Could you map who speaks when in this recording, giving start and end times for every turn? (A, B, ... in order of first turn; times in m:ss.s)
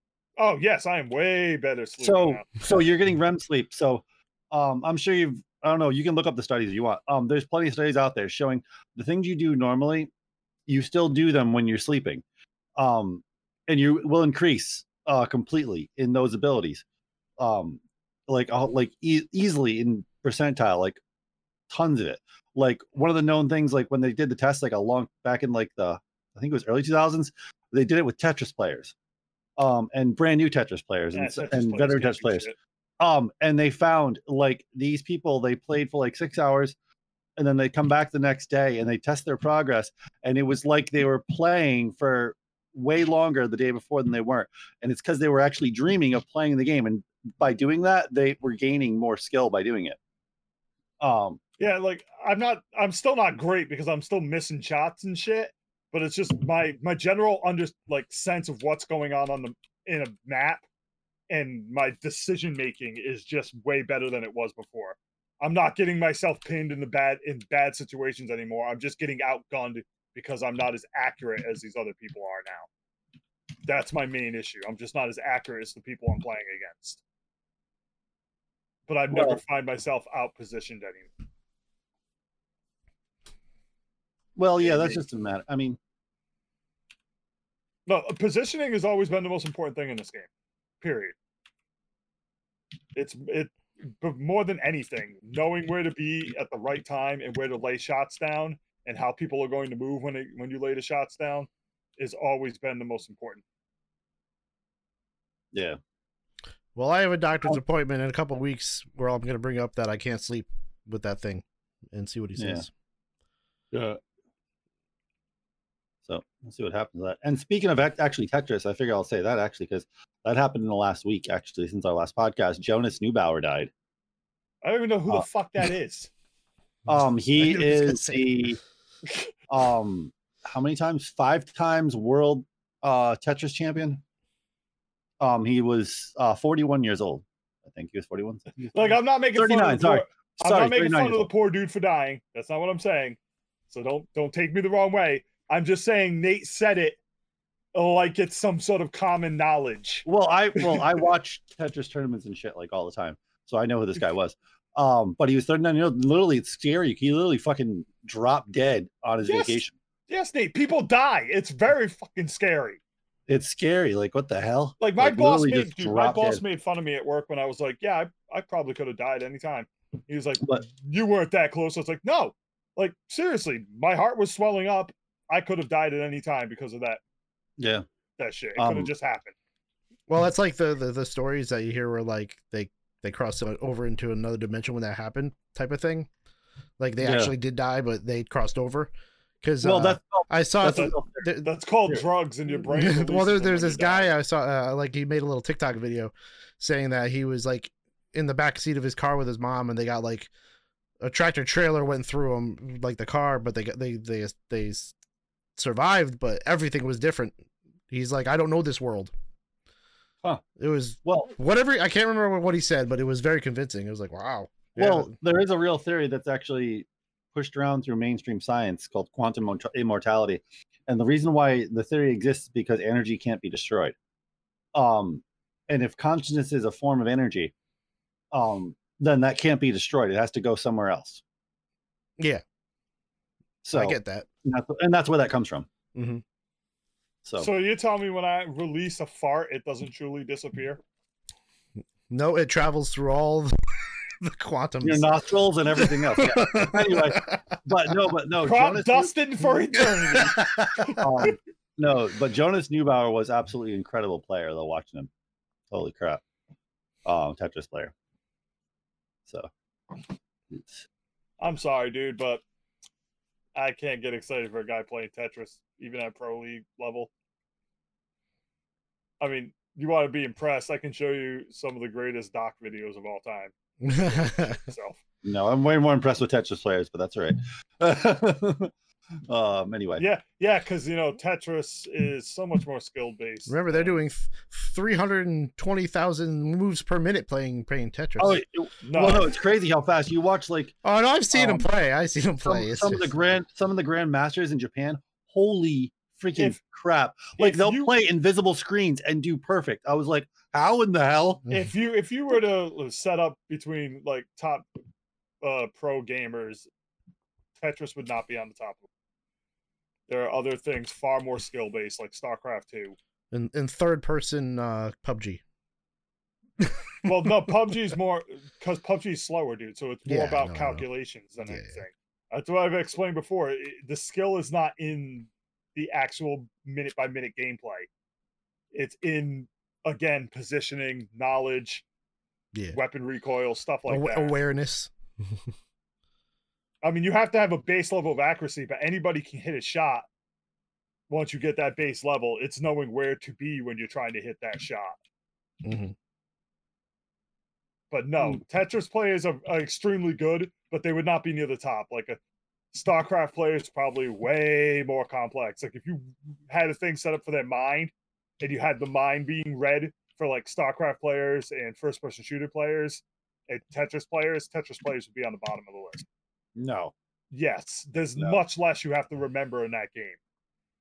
0:00.4-0:02.7 A
0:02.0-0:10.1 B
0:10.7-0:12.2 B
0:12.8-0:16.8 B
0:17.4-0:21.0 B
0:21.7-0:28.9 B
0:29.6-0:32.5 B
0:31.1-0:32.5 A
0:33.0-0:36.8 B
0:37.4-0:50.0 B
0:51.0-0:51.4 B
0:51.6-1:00.6 A
1:01.3-1:12.7 A
1:13.6-1:17.0 A
1:18.9-1:21.1 A
1:19.1-1:19.4 B
1:24.4-1:25.8 B
1:24.6-1:25.0 A
1:27.9-1:30.3 A
1:30.8-1:31.2 A
1:32.9-1:43.4 A
1:45.5-1:45.8 B
1:46.8-1:52.7 C
1:52.4-1:52.7 B
1:53.7-1:54.0 B
1:56.1-2:03.7 B
2:04.6-2:06.1 A
2:06.9-2:08.6 B
2:07.4-2:08.3 C
2:09.5-2:14.0 B
2:15.2-2:21.3 B
2:18.7-2:23.2 A
2:23.7-2:27.0 A
2:27.7-2:31.0 A
2:30.1-2:39.8 B
2:39.2-2:42.8 A
2:43.3-2:46.4 B
2:44.8-2:57.0 A
2:57.6-2:57.8 B
2:58.2-2:59.4 A
2:58.6-2:58.9 B
3:00.1-3:06.1 C
3:06.8-3:11.5 C
3:07.0-3:07.3 B
3:09.6-3:11.3 B
3:10.7-3:14.1 A
3:12.7-3:20.3 C
3:21.0-3:24.9 C
3:25.6-3:27.4 C
3:27.9-3:29.1 C
3:30.6-3:35.1 C
3:31.0-3:31.3 B
3:34.8-3:44.0 B
3:44.7-3:47.5 B
3:48.3-3:51.2 B
3:53.6-3:55.7 B
3:53.7-3:54.3 C
3:56.0-3:56.2 C
3:57.4-4:00.8 A
4:02.1-4:03.6 C
4:04.2-4:05.2 C
4:04.8-4:09.1 B
4:05.8-4:07.4 C
4:08.4-4:11.0 A
4:10.2-4:11.0 C
4:10.9-4:15.1 B
4:15.7-4:16.2 B
4:17.0-4:17.9 B
4:20.5-4:20.8 B
4:21.4-4:22.4 A
4:23.6-4:27.1 A
4:29.2-4:35.0 A
4:33.8-4:34.6 C
4:35.2-4:38.7 B
4:39.3-4:40.0 B
4:40.0-4:43.9 A
4:43.5-4:48.4 C
4:48.2-4:50.8 B
4:48.8-4:49.3 A
4:50.8-4:53.1 C
4:51.3-4:51.7 B
4:52.4-5:01.4 B
4:57.4-4:57.9 A
5:01.5-5:04.8 A
5:05.4-5:06.7 A
5:07.6-5:08.9 A
5:10.1-5:13.0 A
5:13.3-5:15.4 C
5:17.0-5:27.9 A
5:20.1-5:20.8 C
5:21.5-5:21.8 C
5:28.7-5:31.8 A
5:32.7-5:34.4 A
5:33.9-5:35.4 C
5:36.8-5:40.1 A
5:41.1-5:45.0 A
5:45.6-5:45.9 C
5:47.9-5:52.2 A
5:52.7-6:06.0 A
6:06.6-6:06.9 B
6:07.3-6:10.2 A